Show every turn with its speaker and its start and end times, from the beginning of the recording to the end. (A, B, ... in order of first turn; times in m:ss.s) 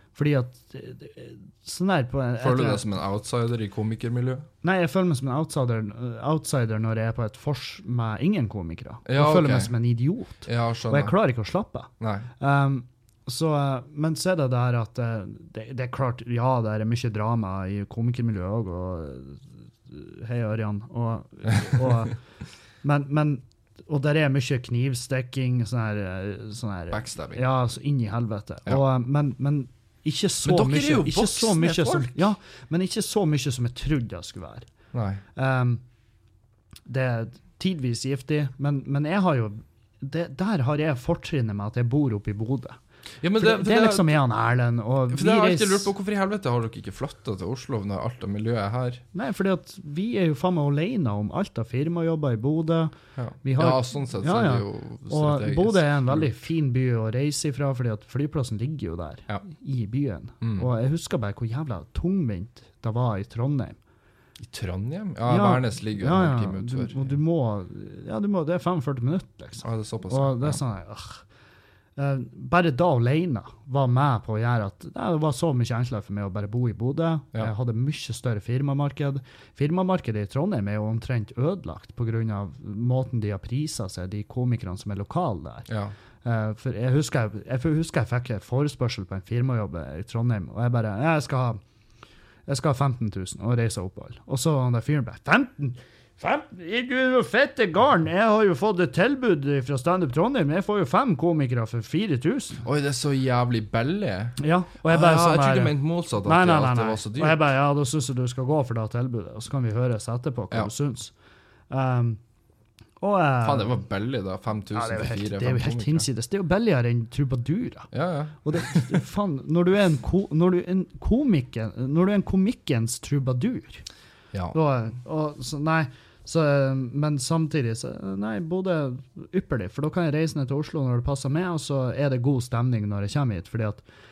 0:00.1-0:02.8 A
0:02.4-0:04.5 B
0:04.6-0:22.2 A
0:09.0-0:09.7 B
0:10.4-0:11.1 B
0:12.0-0:12.3 B
0:22.8-0:34.7 A
0:26.9-0:27.4 B
0:30.4-0:32.3 B
0:34.9-0:35.2 B
0:35.3-0:35.8 A
0:36.9-0:42.8 A
0:43.2-0:44.2 B
0:43.4-0:45.9 A
0:45.1-0:49.0 B
0:49.1-0:52.9 A
0:53.2-0:56.4 B
0:53.4-1:03.8 A
1:00.4-1:00.7 B
1:04.4-1:07.1 B
1:05.3-1:11.2 A
1:09.6-1:10.6 B
1:12.0-1:25.6 A
1:25.7-1:25.9 B
1:26.2-1:31.6 A
1:32.5-1:42.6 A
1:42.6-1:47.4 B
1:44.4-1:51.1 A
1:51.7-1:52.2 A
1:53.0-1:53.8 A
1:53.4-1:56.1 B
1:54.7-1:57.9 A
1:57.9-1:59.0 B
1:58.4-2:03.8 A
2:04.5-2:13.8 A